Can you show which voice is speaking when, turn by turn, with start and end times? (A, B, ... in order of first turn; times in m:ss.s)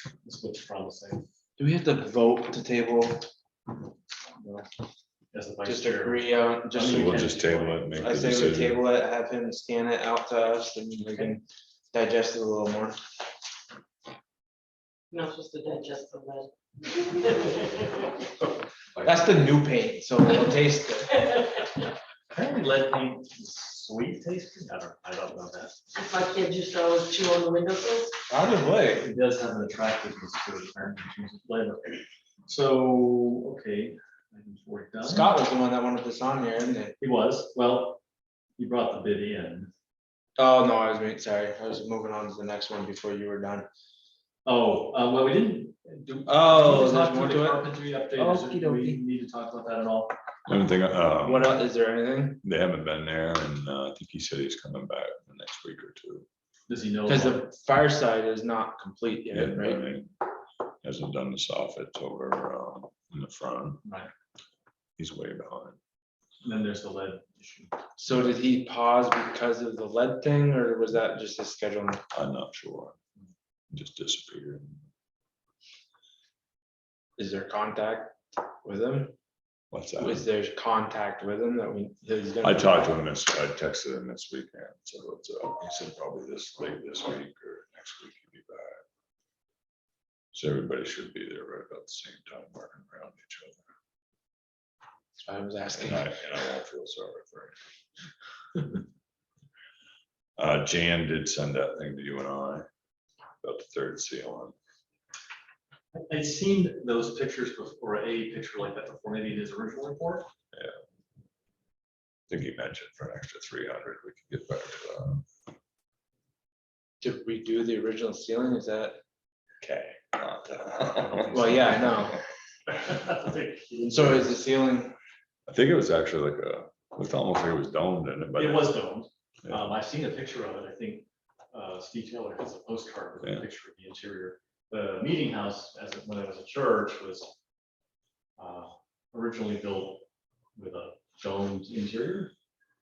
0:00.2-0:01.2 A
0:01.6-0:03.3 B
0:04.4-0:04.6 B
0:05.3-0:08.0 A
0:05.6-0:07.3 B
0:06.8-0:08.8 C
0:08.0-0:13.0 B
0:15.1-0:17.9 D
0:19.0-0:19.2 A
0:19.0-0:21.1 B
0:22.3-0:25.8 A
0:26.0-0:28.2 D
0:28.3-0:29.0 B
0:29.0-0:35.3 A
0:35.0-0:36.9 B
0:37.0-0:38.0 A
0:38.6-0:39.7 A
0:40.4-0:43.7 B
0:44.5-0:50.1 A
0:46.3-0:49.0 B
0:50.5-0:51.7 C
0:51.2-0:52.4 B
0:52.4-0:56.3 C
0:56.7-0:57.5 A
0:57.1-0:59.8 B
0:59.3-1:00.1 C
1:00.8-1:03.8 C
1:03.8-1:04.1 A
1:05.0-1:05.8 C
1:06.4-1:07.8 A
1:08.0-1:12.0 B
1:12.1-1:13.0 C
1:13.7-1:14.8 C
1:17.2-1:18.1 B
1:18.6-1:19.1 B
1:19.7-1:20.2 C
1:20.0-1:22.9 B
1:22.4-1:28.8 C
1:30.3-1:33.6 C
1:35.2-1:36.1 B
1:35.7-1:37.6 C
1:40.4-1:42.6 C
1:43.4-1:44.5 C
1:45.9-1:50.3 A
1:52.3-1:55.2 C
1:57.0-1:59.0 B
1:59.6-2:01.8 C
2:01.1-2:02.1 A
2:01.3-2:02.1 B
2:02.7-2:04.4 A
2:03.8-2:05.0 B
2:05.5-2:08.8 C
2:08.4-2:17.3 A
2:18.4-2:22.3 A